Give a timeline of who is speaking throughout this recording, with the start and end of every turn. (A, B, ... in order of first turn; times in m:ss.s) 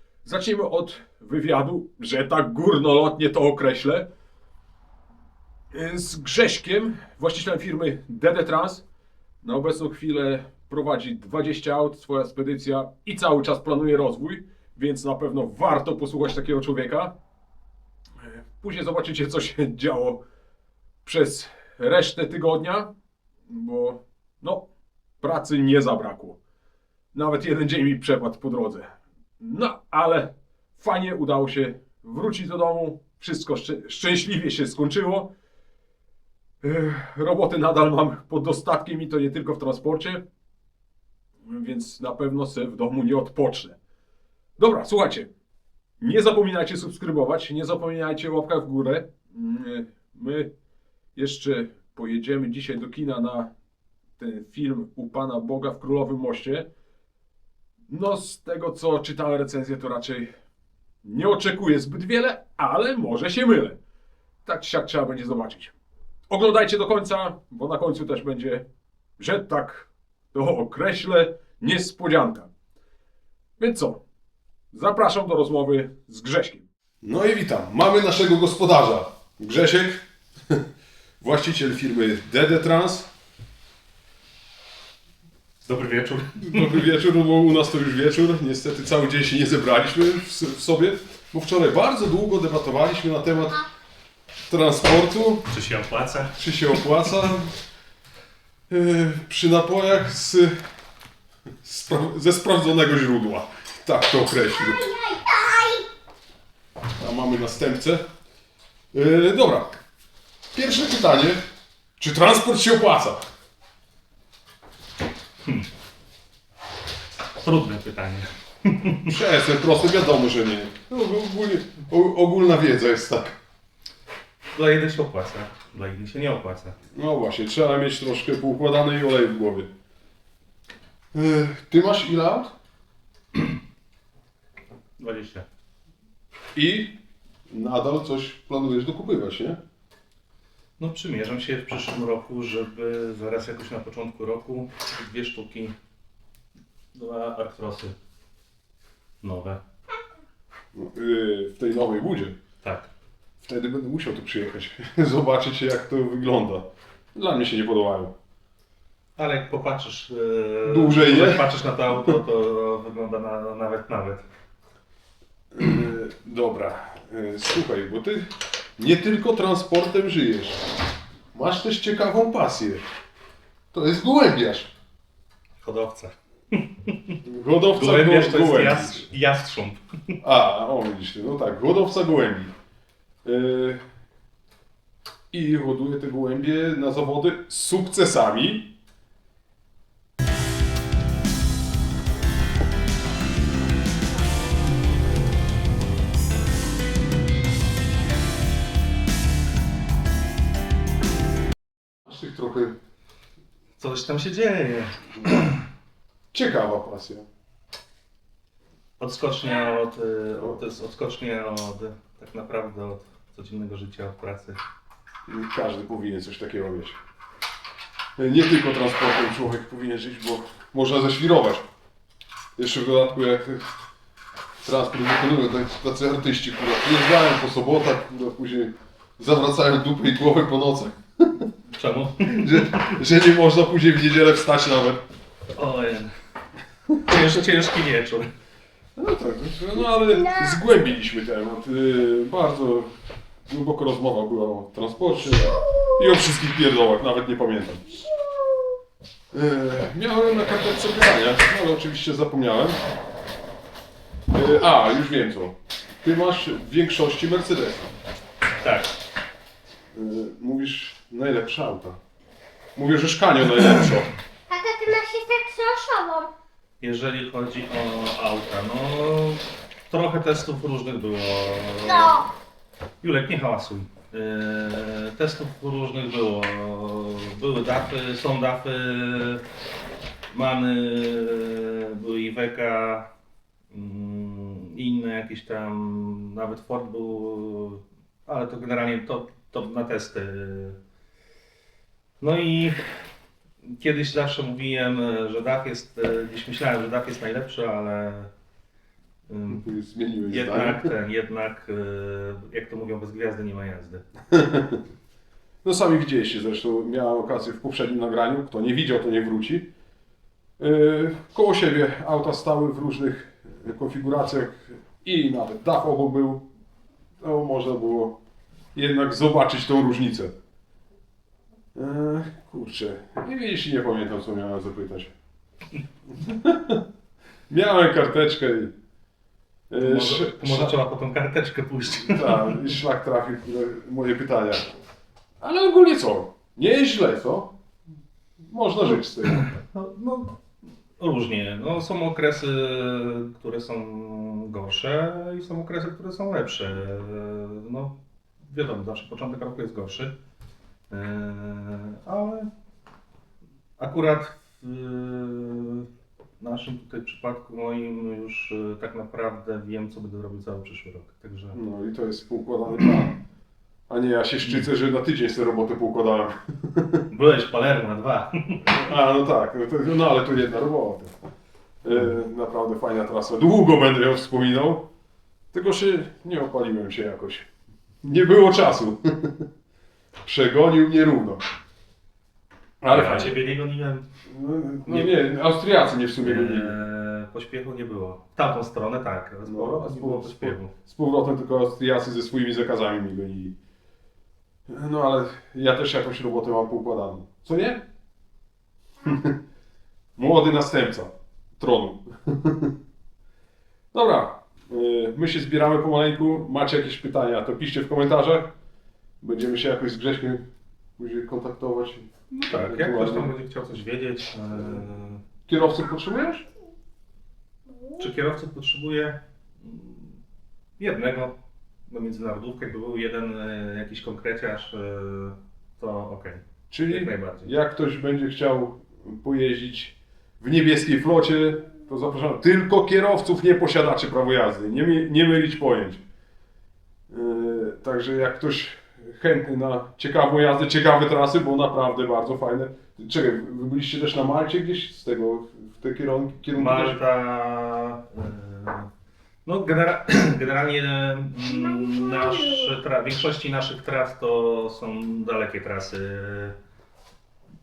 0:00.2-0:04.1 A
0:05.7-0:08.8 A
0:09.4-0:17.1 A
0:18.2-0:20.2 A
0:21.0-0:22.9 A
0:23.5-0:24.7 A
0:25.2-0:26.4 A
0:27.1-0:35.3 A
0:36.6-0:40.2 A
0:41.4-0:43.8 A
0:44.6-0:45.3 A
0:46.0-0:50.5 A
0:51.1-0:53.5 A
0:54.2-0:56.7 A
0:57.9-1:00.3 A
1:01.0-1:03.8 A
1:04.4-1:05.7 A
1:06.3-1:08.6 A
1:09.2-1:12.5 A
1:13.6-1:14.0 A
1:14.7-1:20.6 A
1:21.2-1:23.1 A
1:25.6-1:26.8 B
1:26.4-1:33.6 A
1:34.5-1:35.5 A
1:35.5-1:36.4 B
1:36.4-1:37.5 A
1:38.7-1:40.6 A
1:41.6-1:44.9 A
1:44.9-1:45.8 C
1:47.0-1:48.0 A
1:48.9-1:49.8 A
1:50.5-1:51.4 A
1:52.0-1:53.2 A
1:57.4-1:59.1 B
1:59.0-2:03.3 A
2:04.5-2:06.8 B
2:06.9-2:09.7 A
2:11.1-2:12.5 A
2:15.0-2:15.4 B
2:16.5-2:17.0 A
2:17.5-2:19.6 A
2:20.8-2:25.7 B
2:26.9-2:28.0 B
2:29.2-2:29.6 B
2:30.7-2:32.4 A
2:32.6-2:32.9 B
2:33.4-2:38.1 A
2:39.2-2:44.2 B
2:40.6-2:41.4 A
2:45.5-2:50.6 A
2:51.3-2:52.8 A
2:53.7-2:54.7 A
2:55.6-2:57.2 B
2:57.2-2:59.0 A
2:57.8-3:00.2 B
3:00.2-3:02.5 A
3:03.2-3:03.8 A
3:05.3-3:08.7 A
3:22.0-3:22.8 A
3:23.8-3:25.6 B
3:26.3-3:27.3 A
3:29.0-3:34.6 B
3:35.3-3:37.0 A
3:38.2-3:41.6 A
3:42.6-3:43.7 A
3:44.6-3:51.5 A
3:51.7-3:52.8 B
3:52.2-3:55.0 A
3:55.6-3:56.1 B
3:57.0-3:58.3 B
3:59.0-4:02.9 A
4:03.5-4:08.0 A
4:09.3-4:12.8 A
4:14.3-4:17.9 A
4:18.6-4:19.0 B
4:19.9-4:22.0 A
4:22.7-4:24.1 A
4:24.5-4:26.3 C
4:26.8-4:32.2 B
4:31.8-4:32.3 C
4:33.0-4:39.4 B
4:40.3-4:43.1 B
4:43.7-4:50.8 B
4:52.2-4:52.9 B
4:53.6-4:58.3 B
4:59.3-4:59.6 B
4:59.5-5:00.9 A
5:00.2-5:04.0 B
5:04.3-5:04.8 A
5:05.6-5:09.7 A
5:10.6-5:16.5 A
5:17.2-5:18.2 A
5:18.7-5:20.4 A
5:21.7-5:25.1 A
5:26.1-5:26.8 A
5:27.5-5:28.7 A
5:29.7-5:30.8 A
5:29.8-5:32.7 B
5:32.0-5:34.7 A
5:35.4-5:37.5 A
5:38.4-5:39.5 A
5:39.2-5:40.4 B
5:41.0-5:48.0 B
5:48.5-5:50.1 B
5:50.9-5:52.5 B
5:53.8-5:55.9 B
5:56.4-6:01.6 B
6:01.5-6:03.1 A
6:03.9-6:07.0 A
6:07.1-6:08.8 B
6:08.7-6:11.1 A
6:11.8-6:14.9 A
6:15.5-6:17.5 A
6:18.0-6:19.4 A
6:20.2-6:21.4 A
6:22.8-6:23.3 A
6:22.9-6:24.1 B
6:24.3-6:26.7 A
6:24.8-6:25.1 B
6:26.2-6:30.7 B
6:29.4-6:33.5 A
6:34.7-6:37.8 A
6:39.0-6:39.4 A
6:40.2-6:42.7 A
6:43.9-6:48.5 A
6:49.2-6:50.5 A
6:51.0-6:53.3 A
6:52.3-6:55.2 B
6:54.6-6:54.8 A
6:55.5-6:56.4 A
6:58.0-7:00.2 B
7:00.8-7:07.5 B
7:06.7-7:16.0 A
7:17.1-7:27.0 A
7:26.5-7:28.9 B
7:29.4-7:36.6 B